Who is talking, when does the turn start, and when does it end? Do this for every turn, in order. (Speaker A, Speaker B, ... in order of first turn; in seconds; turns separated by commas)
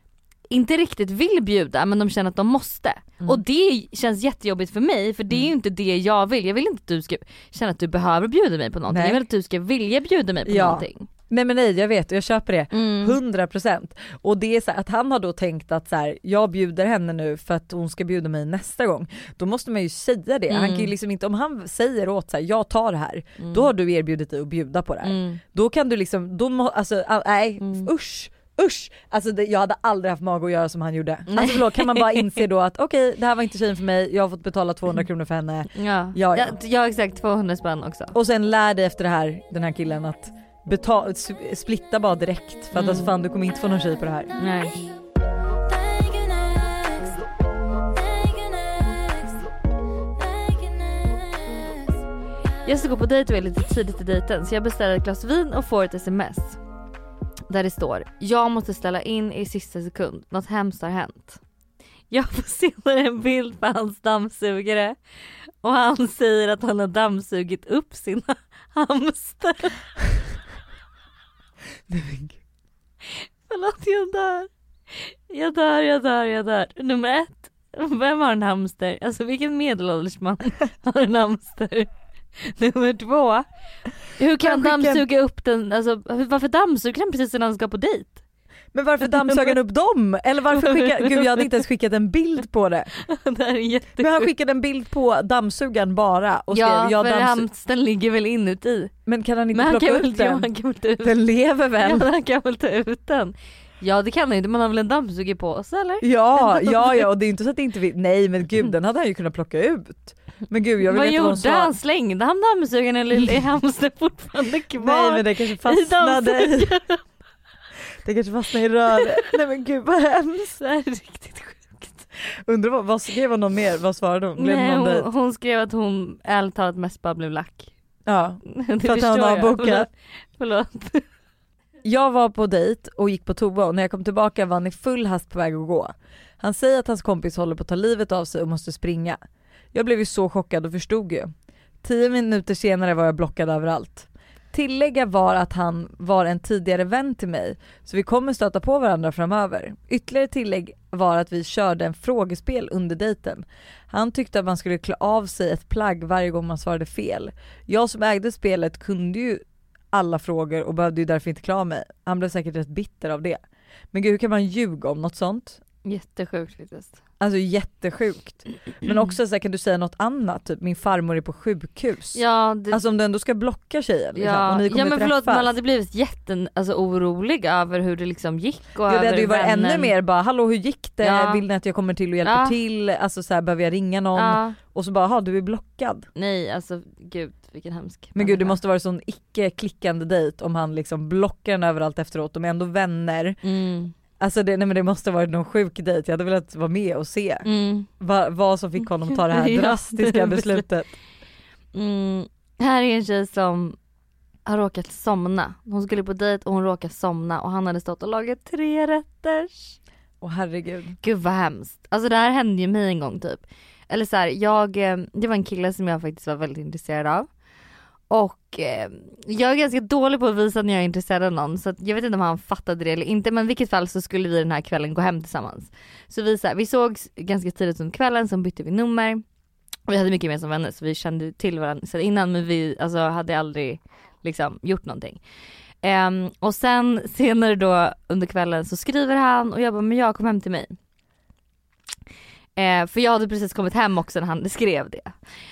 Speaker A: 0.5-11.1, Speaker B: 8.9-9.2, Speaker B: 10.5-36.6, Speaker A: 12.7-13.2, Speaker A: 20.5-20.9, Speaker A: 23.4-23.7, Speaker A: 25.0-25.4, Speaker A: 27.6-27.9, Speaker A: 31.3-32.4, Speaker A: 35.8-38.1, Speaker B: 38.1-44.4, Speaker A: 42.7-43.1, Speaker A: 44.4-44.8, Speaker A: 45.9-47.1, Speaker A: 48.2-49.3, Speaker A: 50.2-51.6, Speaker A: 52.7-56.6, Speaker A: 57.5-61.4, Speaker A: 62.1-65.0, Speaker A: 65.6-69.8, Speaker B: 71.9-72.4, Speaker A: 73.5-83.5, Speaker A: 84.2-88.2, Speaker B: 84.4-85.0, Speaker B: 88.7-92.9, Speaker A: 89.0-89.6, Speaker A: 90.5-91.5, Speaker A: 93.0-94.3, Speaker B: 94.0-97.5, Speaker A: 96.5-98.9, Speaker B: 99.1-100.5, Speaker A: 99.5-101.2, Speaker B: 101.0-102.1, Speaker A: 101.8-107.1, Speaker B: 106.0-111.7, Speaker A: 110.8-117.0, Speaker B: 114.8-116.7, Speaker B: 118.0-120.6, Speaker A: 119.0-119.3, Speaker A: 120.6-122.0, Speaker B: 122.3-125.1, Speaker A: 124.4-127.7, Speaker B: 128.1-129.9, Speaker A: 128.5-131.0, Speaker B: 131.8-139.2, Speaker B: 139.7-141.3, Speaker B: 141.8-163.4, Speaker B: 163.9-165.6, Speaker A: 165.8-167.0, Speaker B: 167.2-172.2, Speaker A: 172.2-172.8, Speaker B: 172.7-175.5, Speaker A: 174.2-179.9, Speaker B: 178.9-186.1, Speaker A: 181.0-181.4, Speaker A: 182.2-182.6, Speaker A: 184.2-184.6, Speaker A: 186.2-188.6, Speaker B: 188.2-193.4, Speaker A: 193.4-193.9, Speaker B: 194.2-197.5, Speaker A: 197.4-197.9, Speaker B: 198.0-200.9, Speaker A: 199.1-200.6, Speaker A: 201.7-203.8, Speaker A: 204.5-209.8, Speaker B: 210.2-211.0, Speaker A: 211.0-217.3, Speaker A: 218.1-229.2, Speaker A: 229.9-235.2, Speaker A: 235.8-240.8, Speaker A: 242.6-245.1